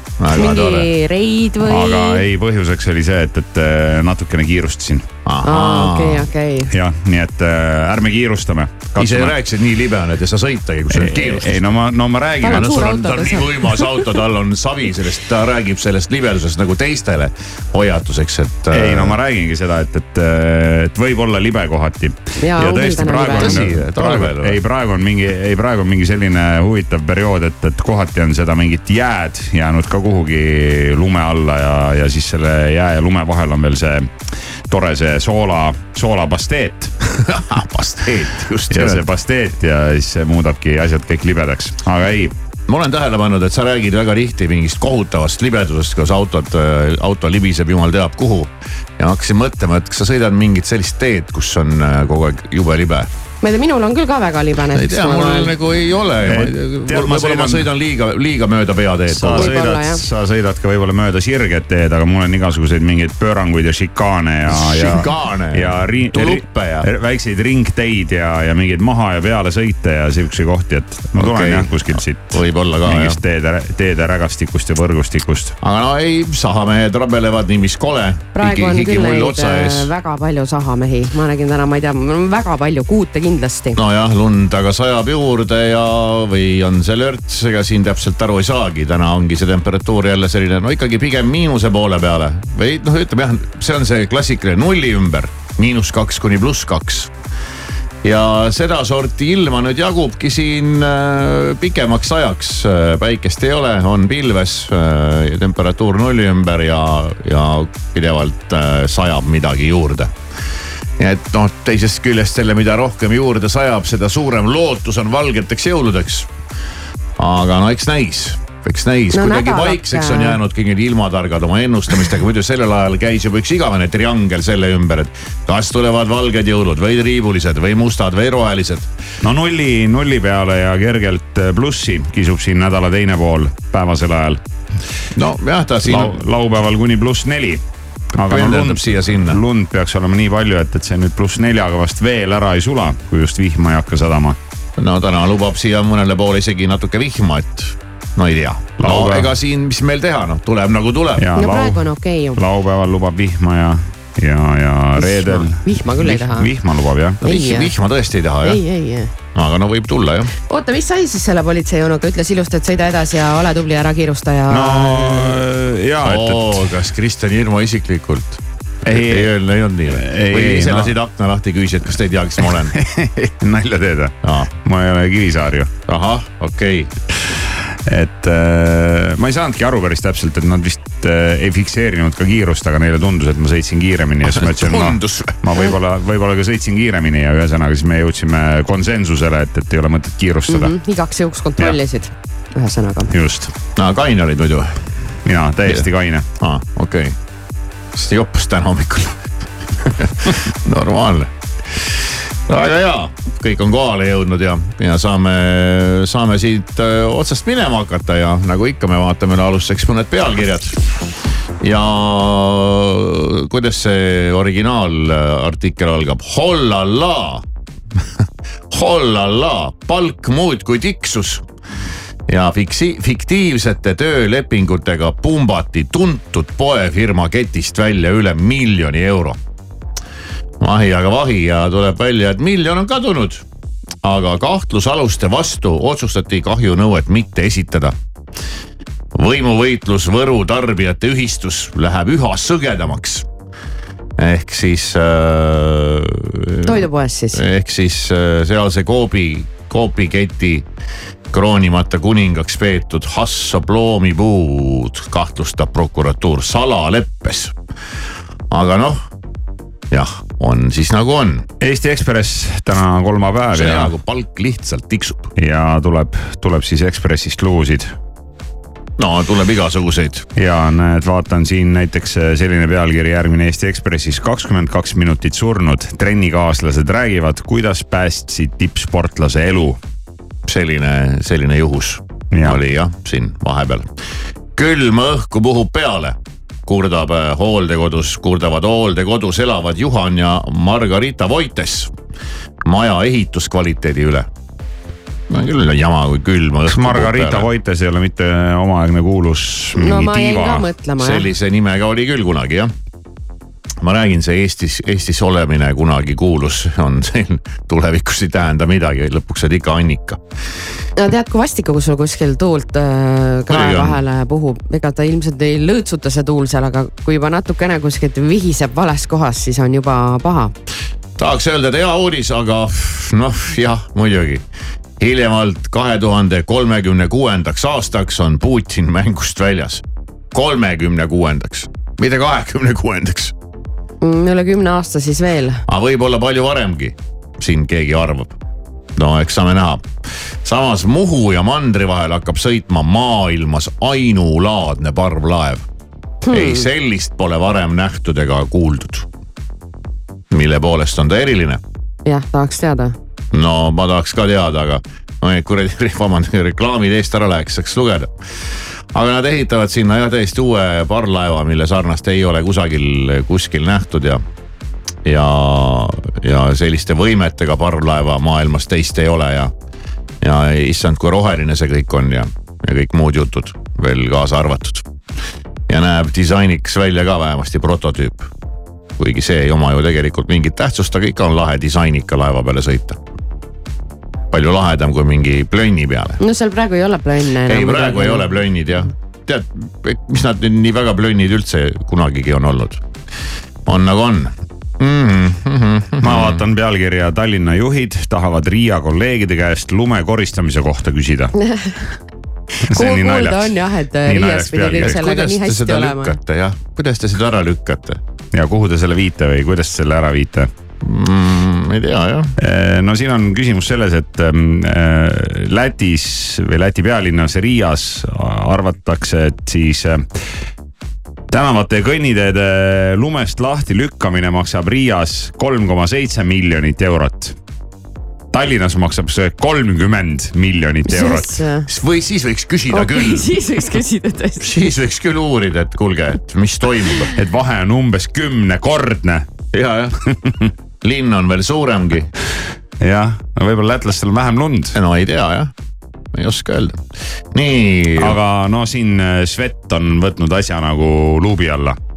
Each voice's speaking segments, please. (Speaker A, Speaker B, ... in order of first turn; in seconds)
Speaker A: 0.2-0.9, 5.2-6.3, 9.0-11.7, 12.4-19.2, 23.3-24.6, 37.2-39.0, 42.7-53.1, 54.7-59.5, 64.5-66.9, 71.1-73.2, 75.6-79.9, 83.7-97.1, 98.0-110.1, 111.0-116.3, 117.2-128.9, 135.2-136.2, 138.3-139.4, 144.8-151.2, 157.2-158.6, 159.3-160.3, 166.0-172.8, 174.2-174.5, 175.9-176.9, 184.2-185.4, 193.8-194.8, 196.4-197.2, 197.9-199.3, 199.8-201.3, 202.5-210.8, 211.6-217.4, 218.7-221.4, 222.3-229.4, 230.6-233.4, 234.0-237.9, 239.1-243.3, 244.2-250.7, 251.3-257.5, 258.5-259.1, 259.9-261.4, 263.5-265.3, 269.0-270.2, 280.4-283.9, 284.6-291.9, 292.6-294.3, 295.3-297.5, 301.0-302.7, 303.8-310.2, 313.5-314.0, 321.2-324.4, 325.0-333.3, 335.7-338.4, 338.9-339.9, 340.4-345.6, 346.3-349.1, 350.3-351.6, 353.3-358.1, 358.9-364.2, 365.0-369.5, 370.2-374.9, 375.7-378.3, 379.0-383.0, 384.3-386.2, 387.4-392.8, 393.6-396.4, 404.7-408.0, 410.8-412.3, 431.7-433.3, 434.4-437.1, 439.5-439.9, 440.8-442.1, 444.7-445.5, 446.1-448.2
Speaker B: 0.3-2.2, 5.4-6.7, 12.4-14.0, 22.4-23.6, 53.4-55.5, 59.3-60.0, 78.3-83.8, 119.1-120.4, 151.3-152.4, 155.0-156.5, 157.2-157.7, 158.4-159.1, 160.5-165.4, 190.5-193.1, 246.6-247.4, 299.7-301.3, 311.0-320.5, 334.0-335.6, 346.2-346.6, 352.0-352.9, 386.2-388.3, 401.4-401.8, 402.7-406.1, 430.9-431.7, 432.7-434.5
Speaker C: 1.6-5.1, 6.7-9.3, 10.9-12.9, 18.7-34.1, 34.7-36.9, 38.7-42.3, 56.2-57.7, 59.1-75.5, 129.2-134.4, 135.8-137.6, 138.1-144.4, 148.8-149.3, 151.2-157.2, 164.5-166.6, 168.8-169.3, 169.9-170.9, 172.8-175.7, 177.9-190.7, 193.1-193.5, 195.2-196.2, 261.6-263.9, 265.4-267.9, 270.4-279.8, 282.3-282.6, 296.7-300.7, 396.0-401.3, 402.7-405.0, 408.3-410.5, 412.4-420.1, 421.3-427.4, 428.3-431.3, 437.1-439.2, 442.8-444.8, 448.0-451.8